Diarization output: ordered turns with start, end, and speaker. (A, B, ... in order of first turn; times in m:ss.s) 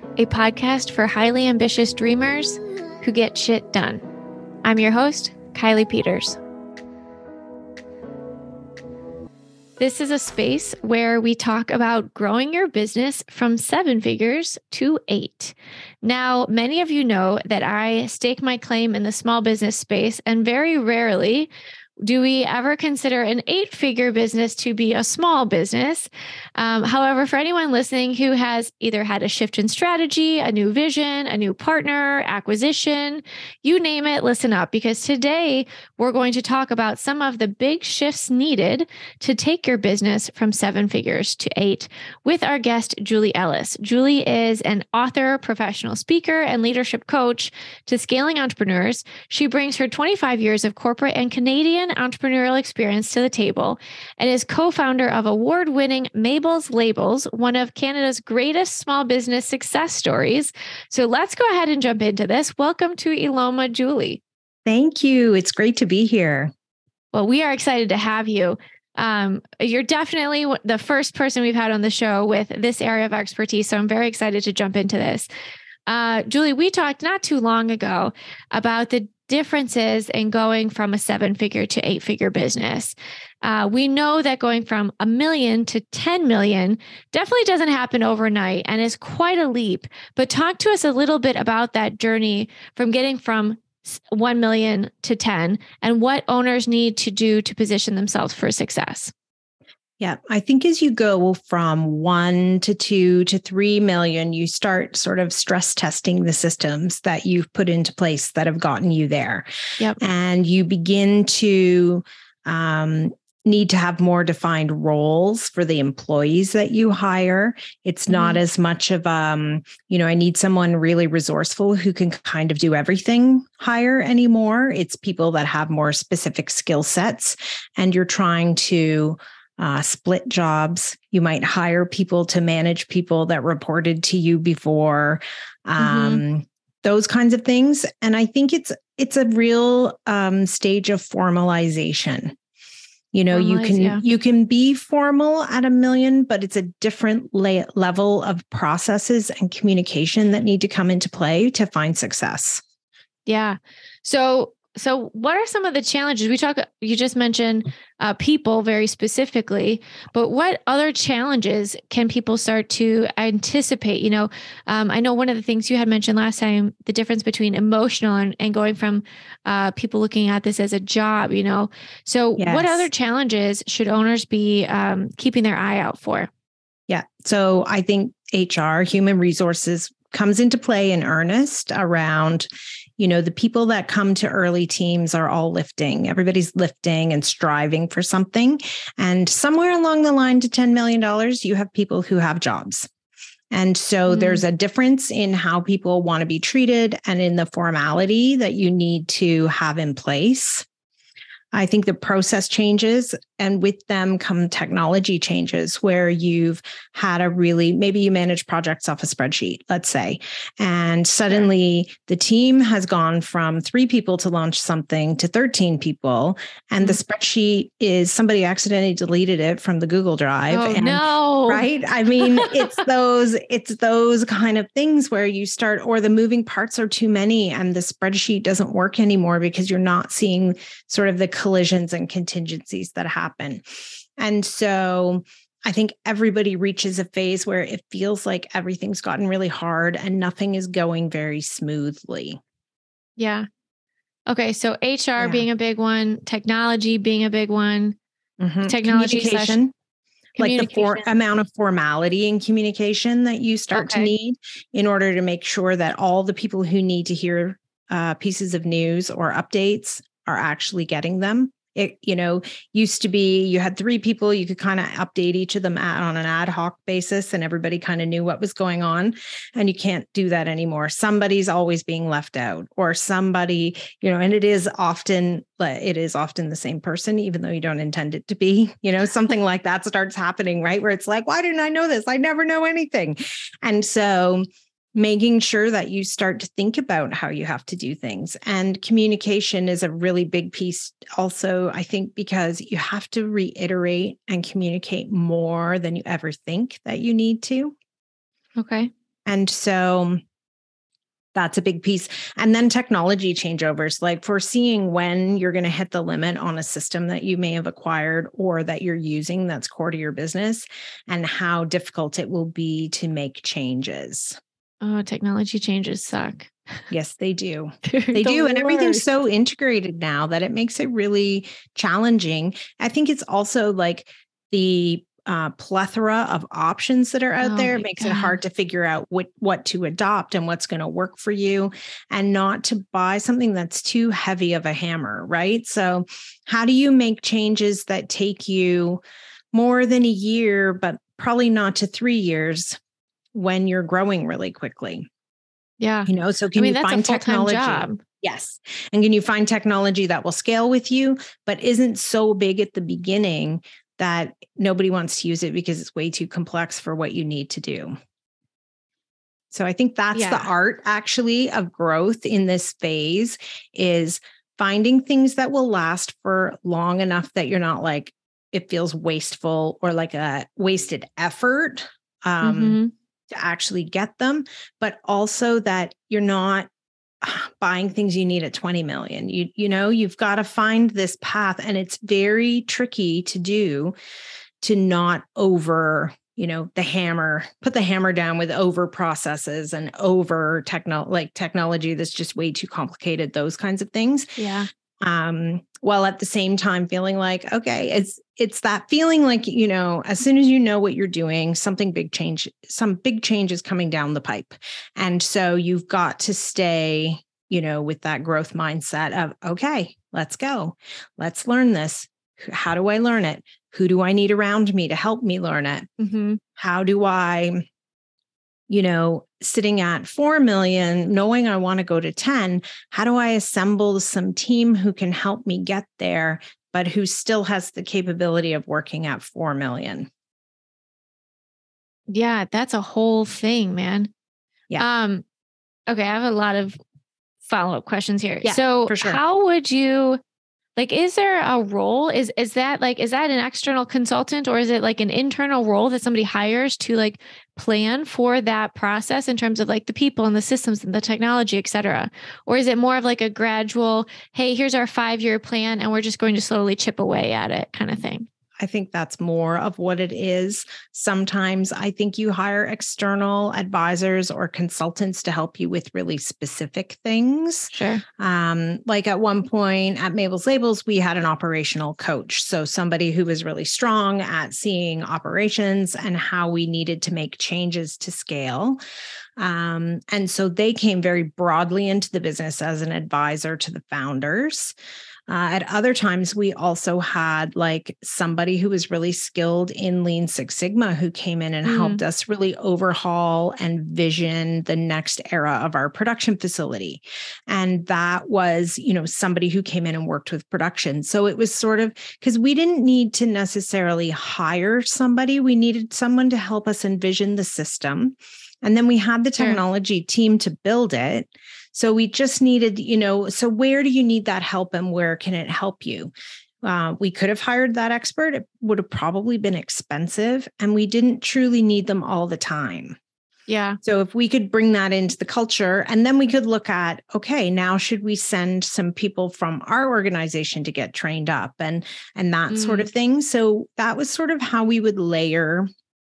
0:00.2-0:04.0 A
0:04.6-0:06.4 A
0:09.8-0:21.5 A
0:22.0-1:04.2 A
1:04.7-1:06.5 B
1:07.1-1:15.3 A
1:15.9-1:39.1 A
1:40.0-1:49.5 B
1:50.0-2:22.4 B
1:58.1-1:58.4 A
2:15.8-2:16.2 A
2:23.1-2:32.6 B
2:23.3-2:24.0 A
2:33.3-2:56.3 A
2:52.4-2:52.9 B
2:56.9-3:12.9 B
3:13.5-3:20.7 B
3:14.1-3:14.4 A
3:21.5-3:53.6 B
3:40.5-3:41.6 A
3:42.2-3:42.8 A
3:54.2-4:02.4 B
4:03.2-4:03.5 A
4:04.3-4:08.0 A
4:05.2-4:05.4 B
4:08.4-4:09.7 B
4:08.6-4:09.6 A
4:10.4-4:57.7 B
4:10.4-4:11.0 A
4:13.7-4:14.1 A
4:58.6-4:58.9 A
4:59.3-5:00.2 B
5:01.4-5:14.4 B
5:14.8-5:16.5 A
5:16.9-5:39.0 B
5:17.8-5:19.1 A
5:27.4-5:28.4 A
5:39.5-5:42.8 B
5:43.3-5:45.1 B
5:45.8-5:48.0 A
5:46.1-5:57.9 B
5:59.5-6:12.8 B
6:00.1-6:00.5 A
6:12.4-6:12.9 A
6:13.3-6:16.7 B
6:17.2-6:24.0 B
6:24.6-6:34.3 B
6:34.4-6:34.7 A
6:35.0-6:55.9 B
6:56.0-6:56.4 A
6:56.6-6:57.6 B
6:58.7-7:10.1 B
7:12.1-7:14.1 A
7:14.8-7:15.2 A
7:15.9-7:16.8 A
7:17.4-7:20.2 A
7:18.4-7:19.2 B
7:20.8-7:38.3 A
7:38.6-7:58.8 B
7:47.7-7:48.0 A
7:59.4-8:04.7 B
8:05.3-8:43.0 B
8:11.6-8:12.0 A
8:43.5-8:43.8 A
8:43.8-8:55.7 B
8:52.5-8:52.9 A